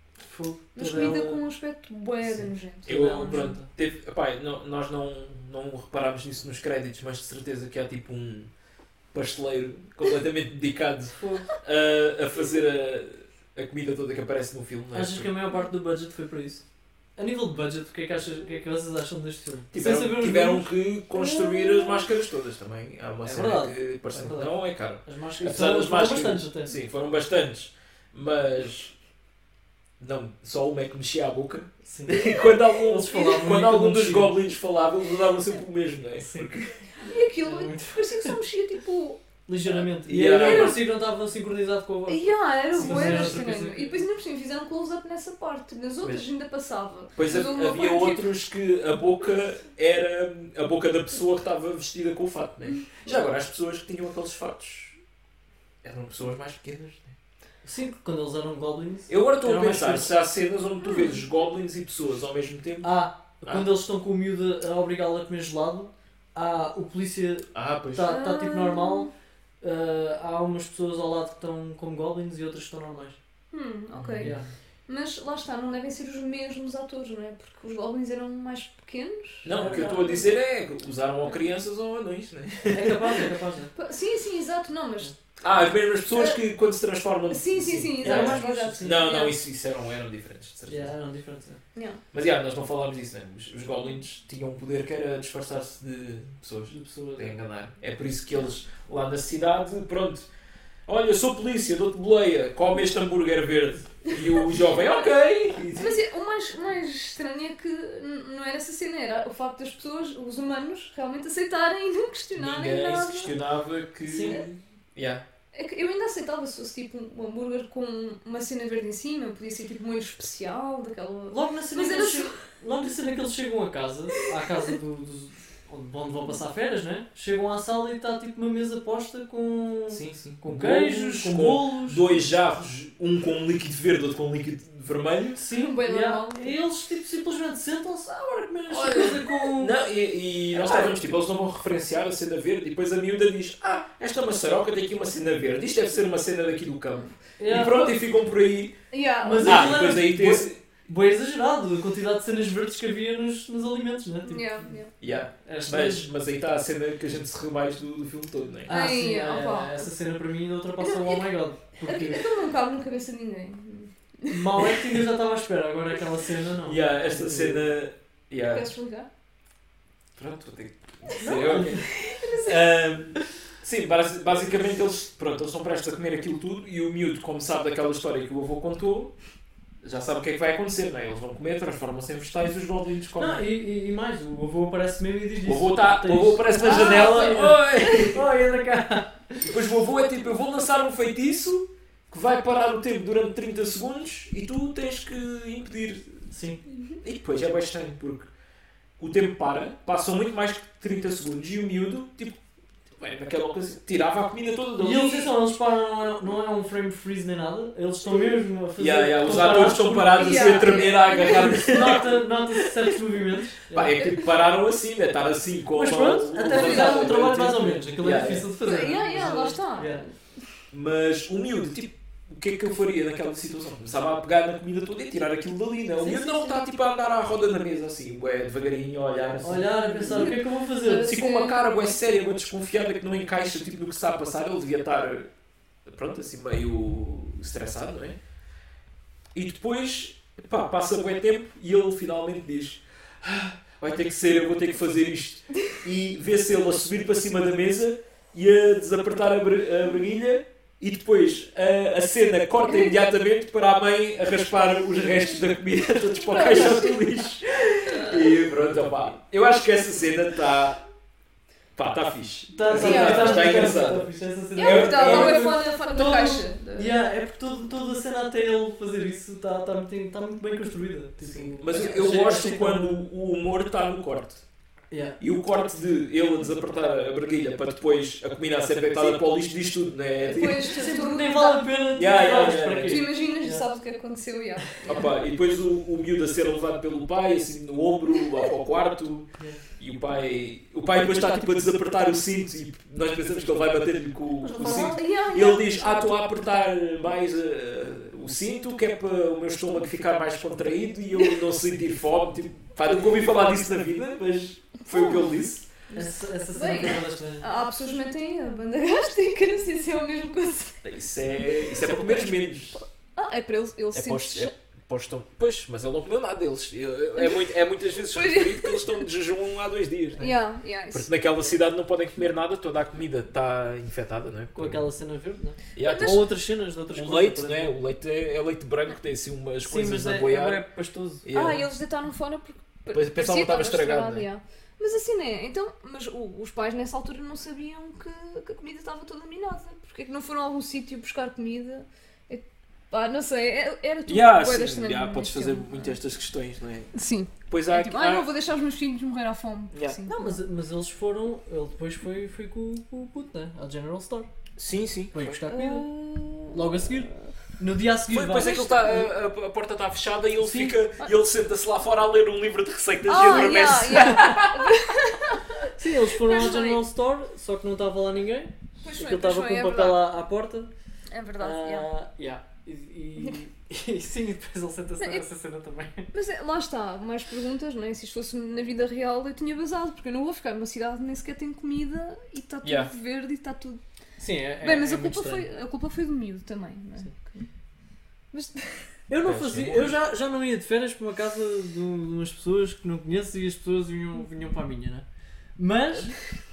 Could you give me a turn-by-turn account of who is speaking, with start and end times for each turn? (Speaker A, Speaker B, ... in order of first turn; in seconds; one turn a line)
Speaker A: 0.2-1.4
Speaker B: 0.8-3.6
Speaker C: 0.8-1.1
Speaker C: 2.4-8.5
Speaker A: 2.9-3.7
Speaker C: 9.1-15.3
Speaker A: 11.2-11.5
Speaker A: 14.9-16.6
Speaker A: 17.2-20.7
Speaker C: 19.7-28.9
Speaker B: 21.1-22.1
Speaker A: 23.2-26.7
Speaker C: 30.0-36.8
Speaker A: 31.8-34.4
Speaker A: 36.2-36.5
Speaker B: 37.0-39.2
Speaker A: 37.4-38.4
Speaker A: 39.5-44.0
Speaker C: 39.6-40.8
Speaker B: 40.3-40.9
Speaker B: 42.1-48.3
Speaker C: 42.7-43.5
Speaker C: 47.1-55.0
Speaker C: 55.8-57.1
Speaker A: 57.6-60.1
Speaker C: 59.1-63.7
Speaker B: 60.9-61.2
Speaker A: 62.8-69.1
Speaker C: 67.5-68.1
Speaker B: 68.0-69.1
Speaker A: 69.6-73.2
Speaker B: 73.5-74.3
Speaker C: 73.9-74.4
Speaker A: 74.2-74.5
Speaker B: 74.9-80.3
Speaker C: 79.4-83.2
Speaker A: 79.5-80.2
Speaker A: 82.7-83.7
Speaker B: 83.7-85.2
Speaker C: 85.4-90.9
Speaker B: 86.1-86.4
Speaker B: 87.3-89.4
Speaker A: 88.0-89.0
Speaker A: 90.7-91.6
Speaker B: 91.7-92.0
Speaker C: 92.1-100.3
Speaker A: 96.7-97.4
Speaker C: 100.8-106.0
Speaker B: 105.7-113.3
Speaker C: 112.3-115.2
Speaker A: 114.0-114.5
Speaker B: 115.5-122.4
Speaker A: 121.3-132.2
Speaker C: 129.9-135.4
Speaker A: 135.4-139.8
Speaker B: 135.5-136.6
Speaker C: 138.7-148.7
Speaker A: 147.4-147.9
Speaker B: 148.9-149.9
Speaker A: 149.2-156.1
Speaker C: 149.4-150.6
Speaker B: 154.2-154.9
Speaker C: 155.0-158.8
Speaker A: 158.7-162.3
Speaker B: 158.7-159.8
Speaker B: 160.8-161.2
Speaker B: 161.8-164.8
Speaker A: 164.3-167.7
Speaker C: 166.6-168.7
Speaker B: 168.4-169.1
Speaker C: 170.2-179.1
Speaker B: 171.1-172.6
Speaker A: 171.2-171.9
Speaker C: 179.8-183.4
Speaker A: 183.2-189.5
Speaker C: 185.4-188.3
Speaker B: 186.6-187.4
Speaker C: 189.4-196.3
Speaker A: 196.3-196.6
Speaker C: 197.0-198.3
Speaker C: 199.0-202.4
Speaker C: 202.9-205.3
Speaker A: 204.8-214.0
Speaker C: 208.8-212.3
Speaker B: 210.1-212.0
Speaker C: 213.7-218.5
Speaker A: 215.7-220.1
Speaker B: 216.5-217.1
Speaker B: 218.6-220.4
Speaker C: 219.1-219.4
Speaker C: 220.7-230.3
Speaker A: 226.0-226.3
Speaker A: 229.4-231.2
Speaker B: 230.0-231.9
Speaker C: 231.0-235.3
Speaker C: 235.8-238.2
Speaker C: 239.3-260.8
Speaker B: 252.7-252.9
Speaker B: 256.2-257.1
Speaker C: 261.8-265.6
Speaker A: 262.5-273.0
Speaker B: 262.7-263.7
Speaker B: 264.6-266.9
Speaker C: 271.3-274.4
Speaker A: 274.9-275.2
Speaker C: 275.2-280.7
Speaker B: 280.2-285.0
Speaker A: 280.7-283.6
Speaker C: 281.9-283.0
Speaker C: 284.8-305.7
Speaker A: 294.5-295.0
Speaker B: 294.5-296.0
Speaker B: 304.9-305.4
Speaker B: 305.9-310.8
Speaker A: 305.9-307.5
Speaker C: 310.8-312.8
Speaker B: 313.1-314.5
Speaker C: 313.9-320.3
Speaker B: 317.1-317.5
Speaker B: 318.0-319.0
Speaker B: 320.2-321.1
Speaker C: 320.9-324.9
Speaker A: 324.5-327.8
Speaker C: 325.7-326.3
Speaker B: 325.8-326.3
Speaker C: 326.9-330.6
Speaker A: 329.6-331.3
Speaker C: 331.2-331.7
Speaker B: 331.3-346.0
Speaker C: 332.9-334.3
Speaker C: 344.1-346.9
Speaker B: 346.9-350.4
Speaker C: 347.5-348.3
Speaker C: 349.7-350.0
Speaker A: 350.1-354.3
Speaker C: 354.6-355.4
Speaker A: 355.1-358.7
Speaker B: 355.5-356.9
Speaker C: 358.1-364.8
Speaker B: 358.4-359.0
Speaker A: 360.4-360.8
Speaker B: 363.1-366.8
Speaker A: 365.7-370.7
Speaker B: 368.8-370.0
Speaker B: 371.1-371.9
Speaker A: 371.4-376.1
Speaker B: 375.0-375.2
Speaker B: 376.1-383.8
Speaker C: 382.6-382.9
Speaker A: 384.2-385.5
Speaker B: 384.6-387.4
Speaker B: 388.3-388.9
Speaker A: 389.1-395.0
Speaker C: 389.2-390.0
Speaker A: 395.6-396.2